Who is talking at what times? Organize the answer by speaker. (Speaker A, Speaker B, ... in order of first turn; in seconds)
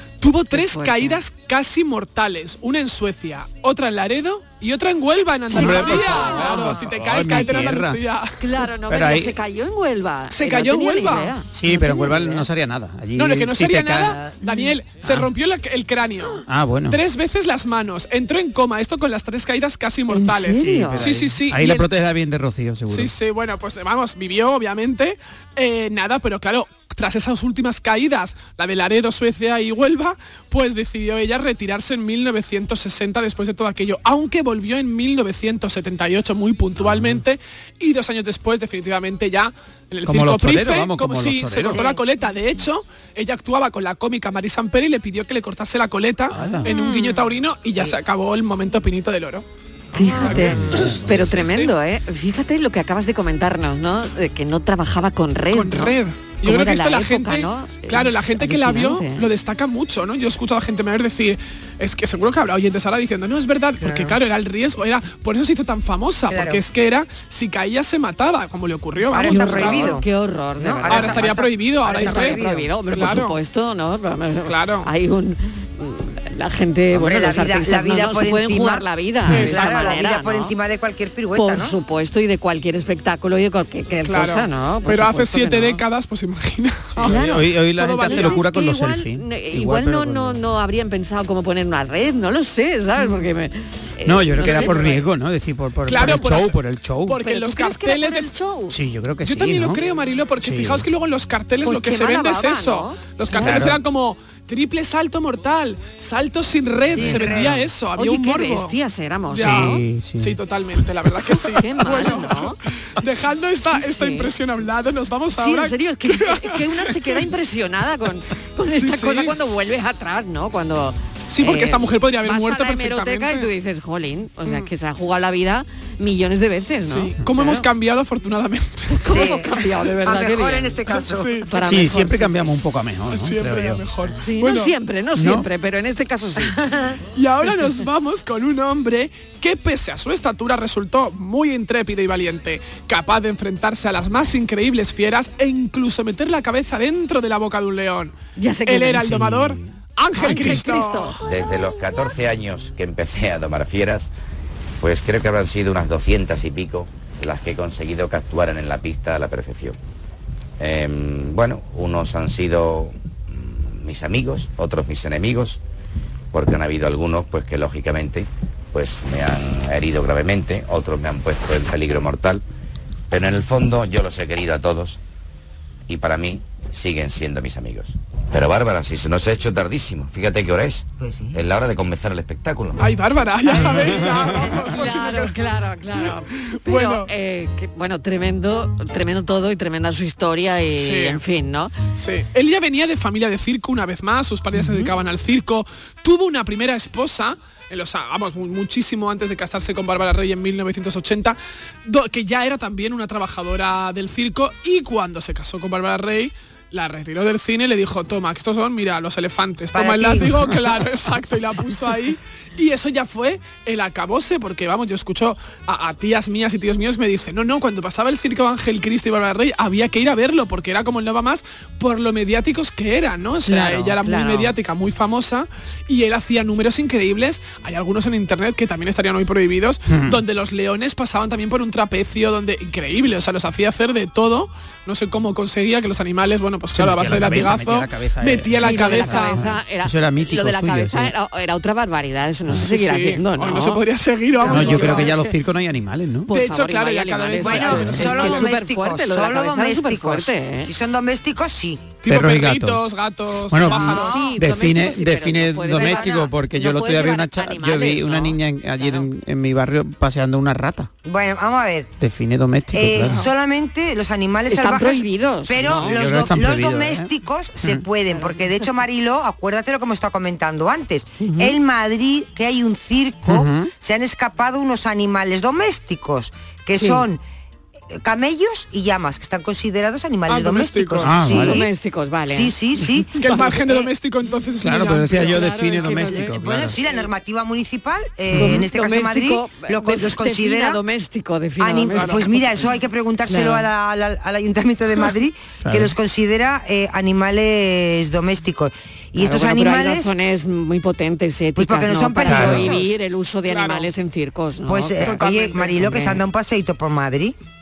Speaker A: 0.2-8.4, 10.3-11.3, 13.1-21.9, 22.9-49.4, 50.1-51.7, 55.5-70.0, 70.8-73.3, 74.4-74.9, 79.3-79.9, 84.0-88.5, 94.3-95.0, 95.8-98.3, 99.2-108.7, 109.3-117.2, 118.7-119.4, 121.3-123.5, 126.9-129.3, 130.9-132.0, 133.1-134.7, 137.1-148.1, 148.7-151.2, 182.8-185.4, 185.9-187.1, 190.8-191.2, 192.0-239.4, 242.6-245.2, 246.3-248.5, 252.0-254.3, 280.3-281.3, 283.2-285.5, 291.9-292.2, 303.4-303.9, 305.0-305.9
Speaker B: 0.5-1.2, 5.6-6.5, 8.4-12.5, 20.1-21.1, 46.7-47.1, 49.9-59.3, 69.2-71.3, 71.9-80.5, 81.3-85.8, 87.0-95.0, 97.2-98.8, 101.6-103.8, 107.0-107.4, 108.0-109.8, 111.4-112.6, 113.6-114.3, 115.3-127.7, 129.0-130.9, 131.5-132.5, 134.2-136.8, 148.4-149.4, 150.1-151.2, 184.6-191.7, 194.6-194.9, 223.4-224.5, 237.2-237.5, 238.5-243.8, 244.4-245.2, 246.3-250.7, 253.8-259.1, 263.0-263.3, 264.5-266.3, 268.1-268.6, 271.2-271.5, 276.8-277.0, 281.1-282.6, 283.1-283.9, 285.1-286.3, 288.3-292.7, 293.3-293.6, 299.2-306.2
Speaker C: 5.5-8.0, 8.9-9.4, 11.5-14.3, 15.0-15.3, 16.4-17.0, 20.6-23.1, 36.8-37.2, 40.0-41.9, 46.3-46.8, 50.2-51.1, 87.0-90.4, 94.0-97.2, 98.7-99.8, 100.4-100.8, 103.3-103.8, 109.4-110.4, 131.6-133.9, 135.2-135.5, 149.3-149.7, 229.9-230.2, 236.7-241.1, 244.5-246.3, 247.6-248.2, 252.1-252.8, 253.5-260.9, 262.0-263.2, 265.7-267.1, 273.2-273.7, 281.0-281.6, 284.6-286.8, 288.3-288.7, 295.6-295.9, 302.2-302.7
Speaker D: 5.7-7.2, 41.7-42.0, 63.8-64.2, 66.3-66.6, 69.1-70.1, 70.6-72.7, 76.9-81.8, 106.9-107.6, 129.1-131.4, 183.5-184.9, 209.7-210.3, 244.4-245.0, 247.4-251.9, 253.7-254.2, 255.8-256.2, 261.0-261.9, 262.7-277.2, 277.9-281.7, 282.3-283.2, 286.0-290.8, 291.6-300.1, 301.6-302.9, 304.6-307.3
Speaker E: 151.2-154.1, 154.8-159.8, 160.6-165.6, 166.3-172.4, 173.1-175.0, 175.9-182.9